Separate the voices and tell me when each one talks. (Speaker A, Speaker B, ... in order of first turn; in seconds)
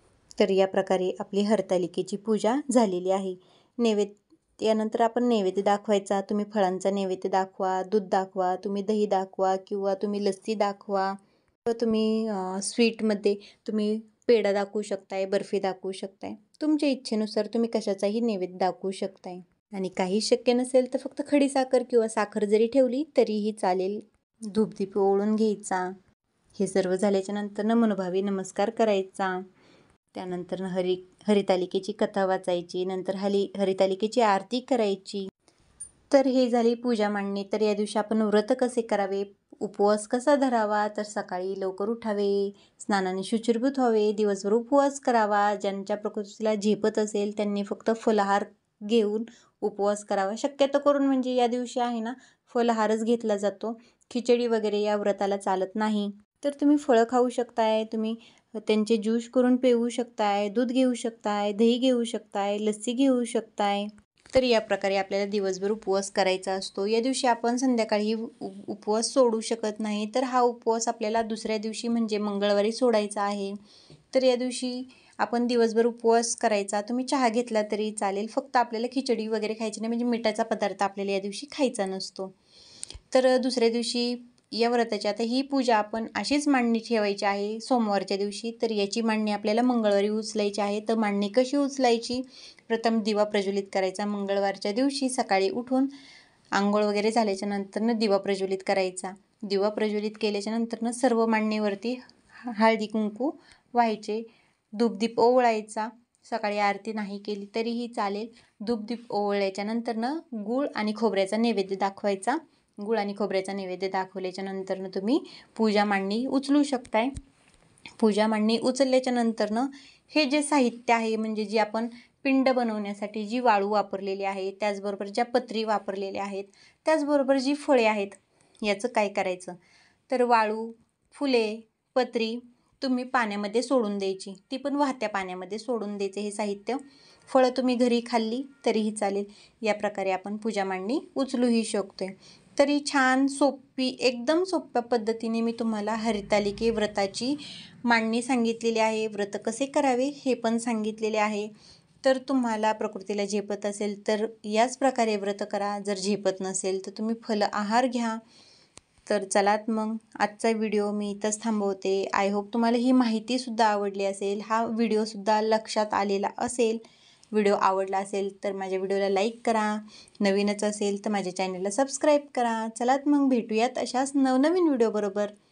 Speaker A: 0.4-25.9, 26.6-29.5, 30.1-35.3, 36.1-73.6, 74.1-82.3, 83.1-95.9, 96.5-117.1, 118.0-129.6, 130.1-151.5, 152.0-158.2, 159.1-166.8, 167.3-175.3